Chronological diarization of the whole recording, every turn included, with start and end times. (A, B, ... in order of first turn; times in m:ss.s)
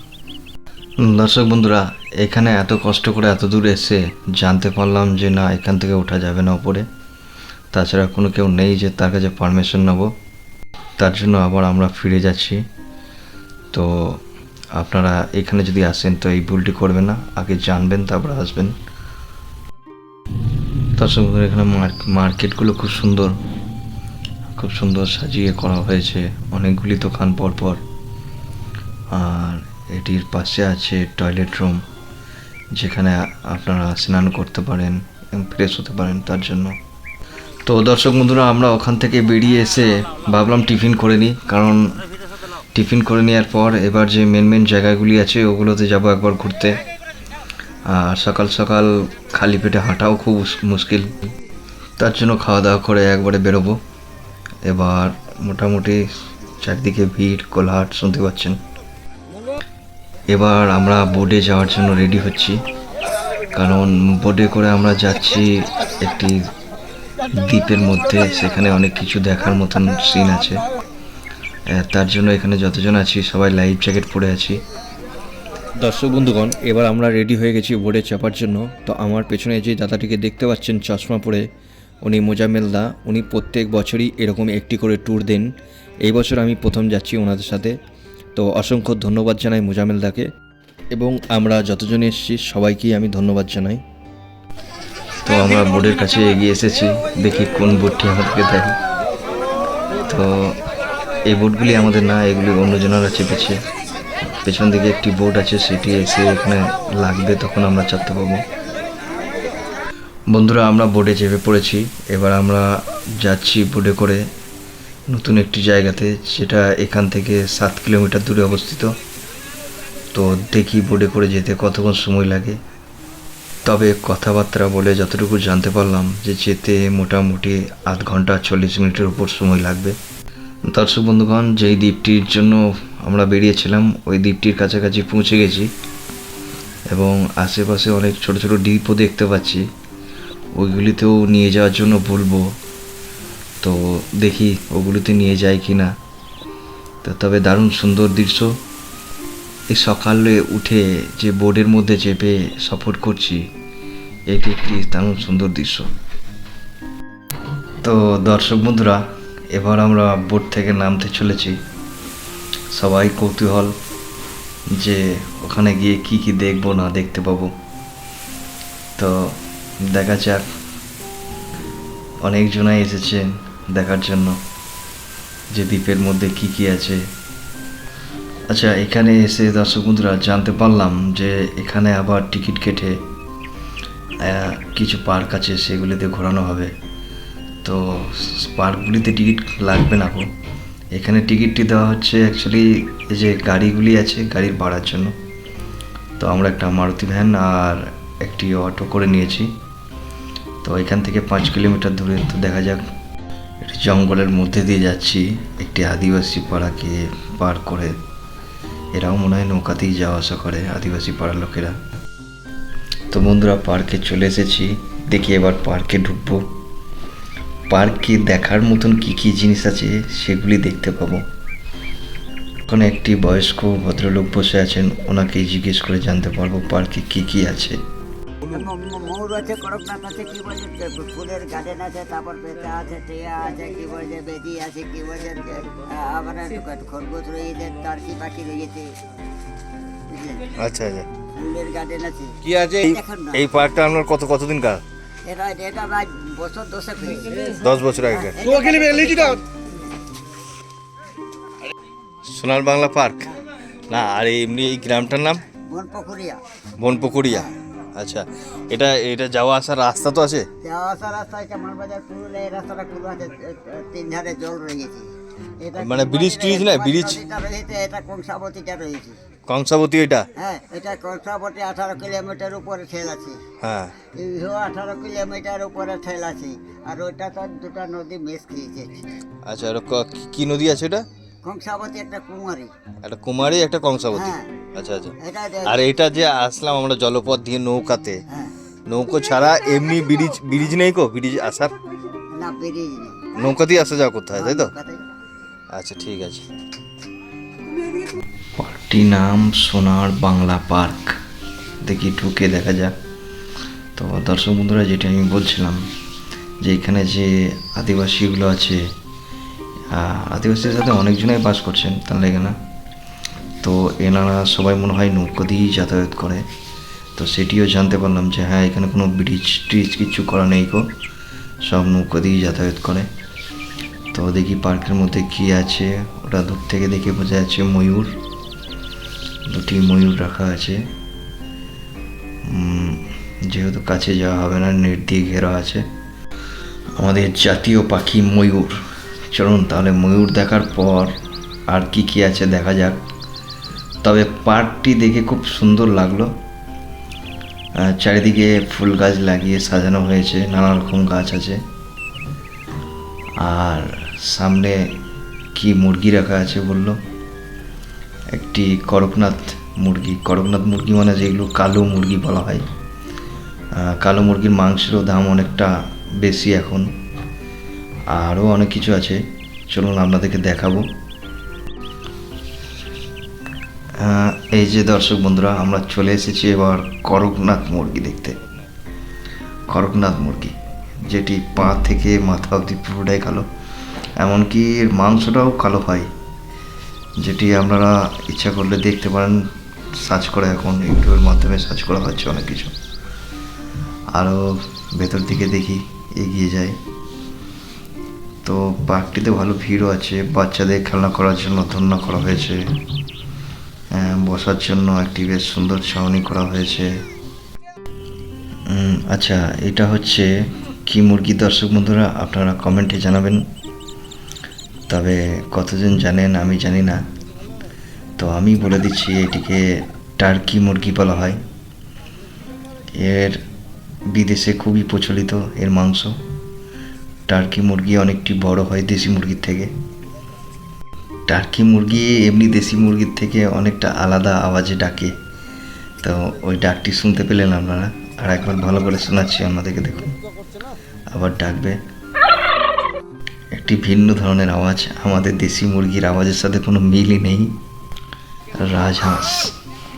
0:01.0-0:06.9 A
0:07.7-0:10.1 A
0:11.0-0:12.6 A
0:13.7-0:14.2 A
0:14.7-0:18.8 A
0:21.0-0:23.4 A
0:24.5-0:27.8 A
0:29.1-0:31.8 A
0:32.7-0:36.8 A
0:37.7-0:42.0 A
0:42.7-0:46.8 A
0:47.9-0:51.1 A
0:52.0-0:53.8 A
0:54.6-0:58.6 A
1:00.3-1:02.6 A
1:03.5-1:06.5 A
1:07.3-1:10.7 A
1:11.7-1:14.6 A
1:15.8-1:21.5 A
1:22.0-1:27.8 A
1:28.4-1:30.3 A
1:30.9-1:33.8 A
1:35.2-1:38.8 A
1:40.1-1:40.6 A
1:41.3-1:43.6 A
1:44.4-1:48.5 A
1:50.3-1:54.3 A
1:55.1-1:59.0 A
2:00.1-2:02.6 A
2:03.7-2:10.0 A
2:10.7-2:15.7 A
2:16.9-2:19.7 A
2:20.6-2:22.6 A
2:23.6-2:25.9 A
2:27.0-2:28.6 A
2:29.7-2:33.5 A
2:34.3-2:35.9 A
2:37.8-2:41.6 A
2:42.7-2:43.8 A
2:44.7-2:47.5 A
2:49.0-2:50.4 A
2:52.2-2:54.4 A
2:55.5-2:57.0 A
2:58.5-3:03.0 A
3:04.2-3:06.7 A
3:07.6-3:10.3 A
3:10.9-3:15.2 A
3:16.2-3:19.6 A
3:20.6-3:22.8 A
3:23.6-3:28.0 A
3:28.9-3:31.8 A
3:33.1-3:36.5 A
3:37.7-3:41.3 A
3:42.7-3:47.8 A
3:48.4-3:59.0 B
4:00.1-4:00.5 B
4:00.6-4:01.1 C
4:01.4-4:03.5 B
4:02.4-4:04.8 C
4:05.3-4:07.6 B
4:07.6-4:08.4 C
4:08.3-4:09.4 B
4:12.2-4:13.3 C
4:13.9-4:15.4 C
4:15.7-4:16.4 B
4:16.8-4:20.5 C
4:20.6-4:29.2 B
4:25.8-4:27.2 C
4:29.5-4:30.3 C
4:30.4-4:33.4 B
4:33.6-4:33.9 C
4:34.1-4:39.1 B
4:39.5-4:41.1 C
4:41.4-4:42.7 B
4:43.0-4:45.1 C
4:44.1-4:44.5 B
4:45.2-4:45.9 B
4:45.6-4:48.2 C
4:48.9-4:51.7 C
4:52.3-4:53.3 B
4:53.4-4:54.7 C
4:54.3-4:55.0 B
4:55.7-4:56.5 C
4:58.6-5:01.2 A
5:01.8-5:03.0 A
5:04.0-5:05.9 A
5:06.6-5:08.9 A
5:09.9-5:12.6 A
5:13.6-5:16.5 A
5:17.2-5:20.9 A
5:21.6-5:23.1 A
5:24.1-5:28.2 A
5:29.5-5:30.9 A
5:32.4-5:35.9 A
5:37.0-5:38.8 A
5:39.3-5:43.0 A
5:44.0-5:46.4 A
5:47.8-5:51.6 A
5:53.4-5:55.0 A
5:55.6-5:57.0 A
5:58.3-6:02.6 A
6:03.7-6:06.9 A
6:08.1-6:10.9 A
6:14.0-6:18.4 A
6:19.7-6:23.5 A
6:24.2-6:26.1 A
6:27.2-6:32.8 A
6:34.1-6:36.8 A
6:38.4-6:42.6 A
6:43.9-6:47.0 A
6:48.7-6:50.3 A
6:50.9-6:53.4 A
6:54.9-6:57.0 A
6:58.2-7:01.4 A
7:03.0-7:03.4 A
7:04.1-7:06.2 A
7:07.3-7:09.7 A
7:11.3-7:15.2 A
7:16.0-7:20.2 A
7:21.1-7:21.8 A
7:23.5-7:27.6 A
7:28.6-7:29.6 A